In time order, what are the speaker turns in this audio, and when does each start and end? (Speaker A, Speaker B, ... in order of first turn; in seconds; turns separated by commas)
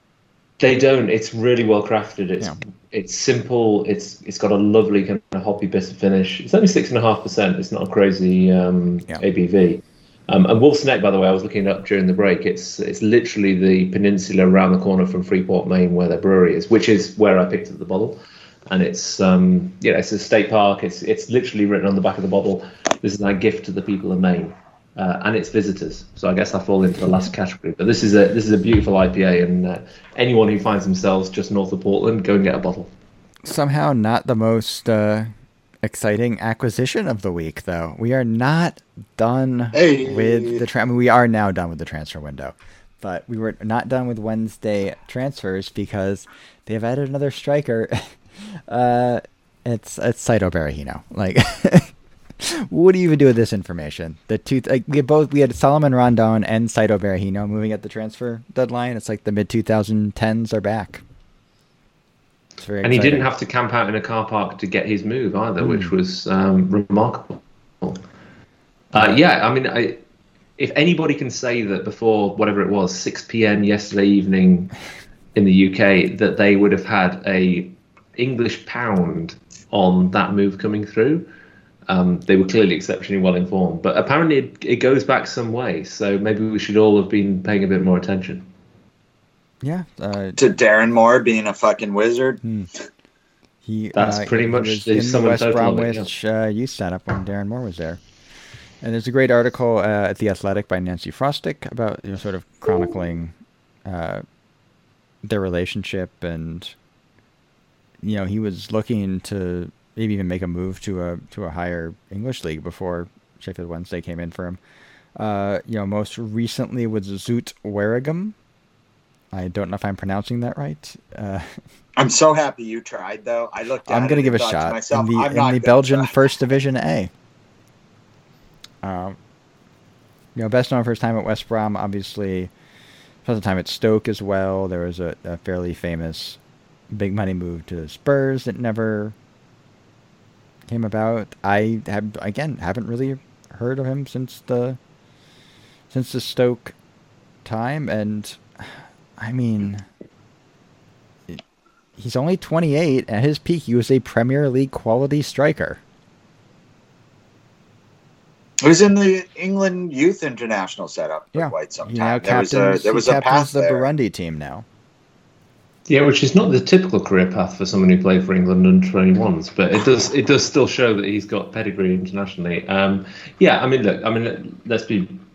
Speaker A: 0.6-32.9, Speaker B: 33.4-35.3, Speaker B: 35.8-61.0, Speaker C: 39.7-40.6, Speaker B: 62.6-63.3, Speaker A: 62.8-68.0, Speaker B: 65.6-65.9, Speaker A: 68.9-70.0, Speaker A: 70.6-74.7, Speaker A: 75.3-81.3, Speaker A: 81.9-88.5, Speaker B: 89.6-90.4, Speaker C: 90.4-92.4, Speaker B: 92.4-92.7, Speaker B: 93.6-98.0, Speaker A: 93.9-96.1, Speaker B: 98.8-104.2, Speaker B: 105.2-106.8, Speaker B: 108.0-114.6, Speaker B: 115.2-118.3, Speaker B: 119.3-121.6, Speaker C: 122.0-126.1, Speaker B: 123.9-127.1, Speaker B: 128.8-129.2, Speaker B: 130.3-132.5, Speaker B: 133.2-136.4, Speaker B: 136.9-139.1, Speaker B: 140.7-144.8, Speaker B: 145.9-146.7, Speaker B: 147.4-149.8, Speaker B: 152.0-155.8, Speaker C: 158.6-163.9, Speaker B: 161.3-164.7, Speaker A: 165.9-175.2